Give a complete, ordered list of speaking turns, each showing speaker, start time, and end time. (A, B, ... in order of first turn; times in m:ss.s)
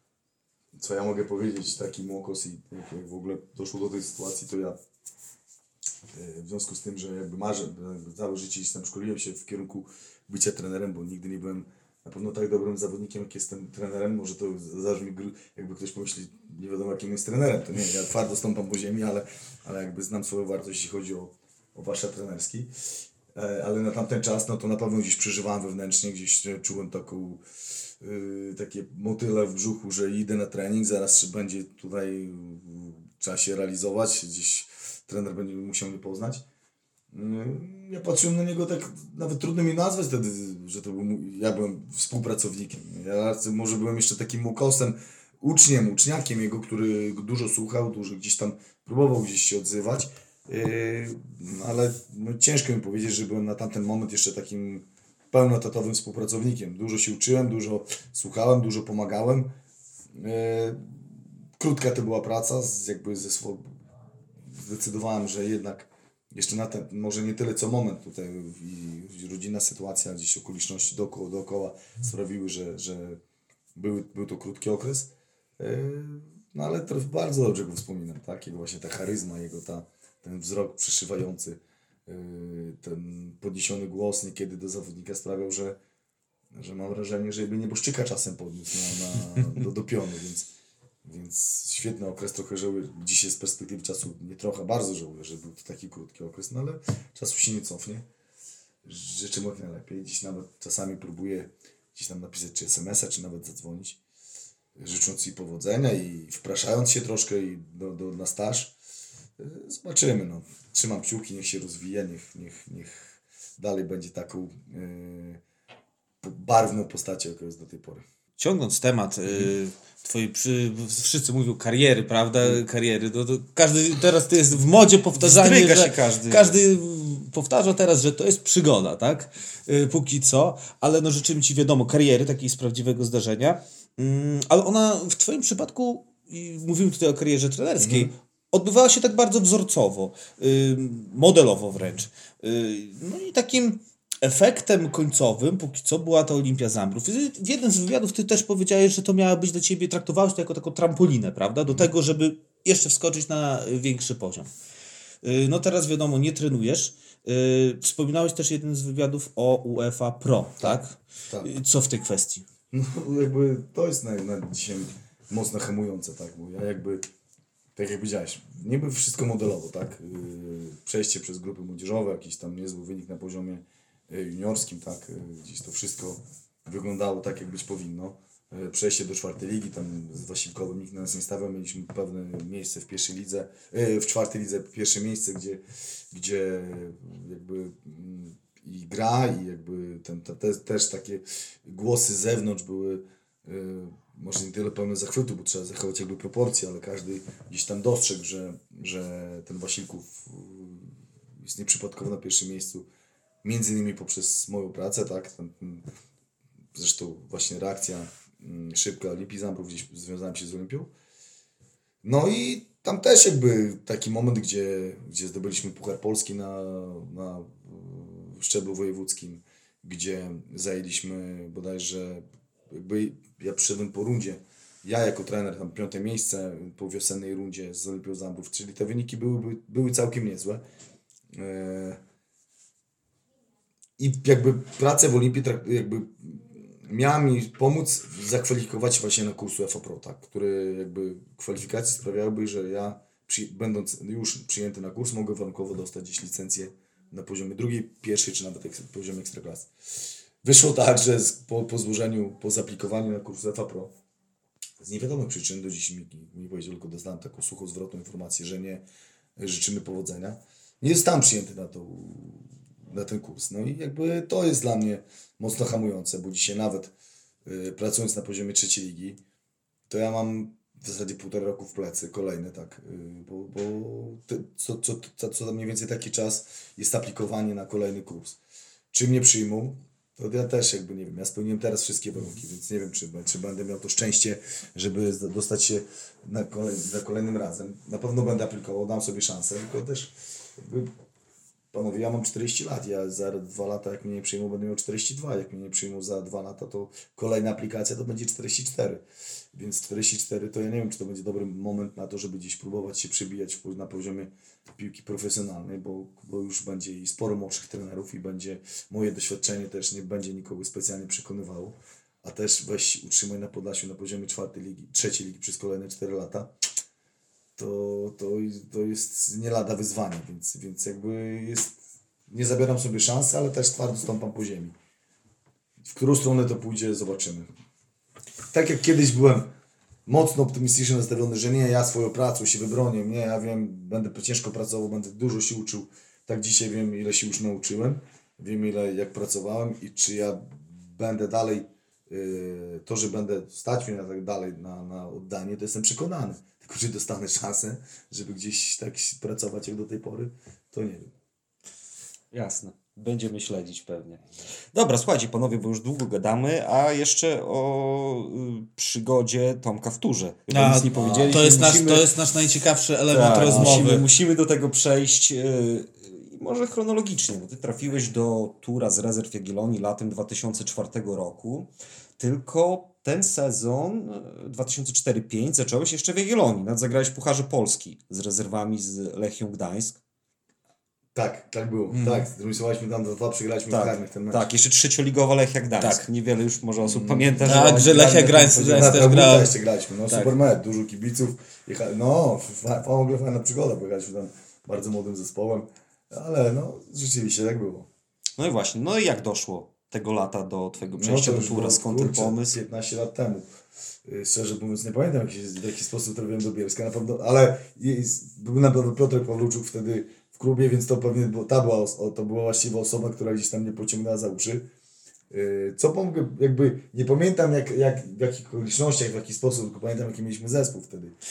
0:00.8-0:04.8 A
0:06.1-0:22.7 A
0:23.3-0:27.4 A
0:28.0-0:36.4 A
0:37.1-0:59.5 A
1:00.2-1:00.8 A
1:01.6-1:03.6 A
1:04.5-1:13.2 A
1:13.7-1:25.8 A
1:26.5-1:30.5 A
1:31.0-1:38.0 A
1:38.8-1:44.0 A
1:44.8-1:48.7 A
1:49.4-1:55.4 A
1:56.2-1:58.0 A
1:58.4-2:34.5 B
2:05.2-2:06.6 C
2:17.8-2:18.1 A
2:35.2-2:42.4 B
2:40.6-2:41.5 A
2:42.7-2:47.0 A
2:47.8-3:22.9 A
3:23.4-3:25.8 A
3:26.7-3:30.9 A
3:32.0-3:50.6 A
3:51.3-3:52.0 A
3:54.0-4:09.7 A
4:10.4-4:13.9 A
4:14.8-4:18.8 A
4:19.4-4:26.9 A
4:27.4-4:29.2 A
4:29.9-4:38.4 A
4:38.9-4:50.9 A
4:51.7-4:59.0 A
4:59.5-5:16.5 A
5:17.6-5:21.8 A
5:22.3-5:24.8 A
5:25.8-5:27.5 A
5:28.5-5:29.5 A
5:30.0-5:51.1 A
5:52.3-6:02.0 C
6:00.5-6:04.0 B
6:00.9-6:02.0 A
6:03.1-6:20.0 C
6:03.4-6:03.9 A
6:21.1-6:24.4 A
6:21.9-6:22.2 B
6:23.7-6:28.2 C
6:25.8-6:26.0 B
6:26.8-6:37.9 A
6:27.4-6:29.6 B
6:30.1-6:30.3 B
6:38.4-6:42.6 C
6:40.9-6:43.5 A
6:44.0-6:54.6 A
6:55.3-7:01.1 A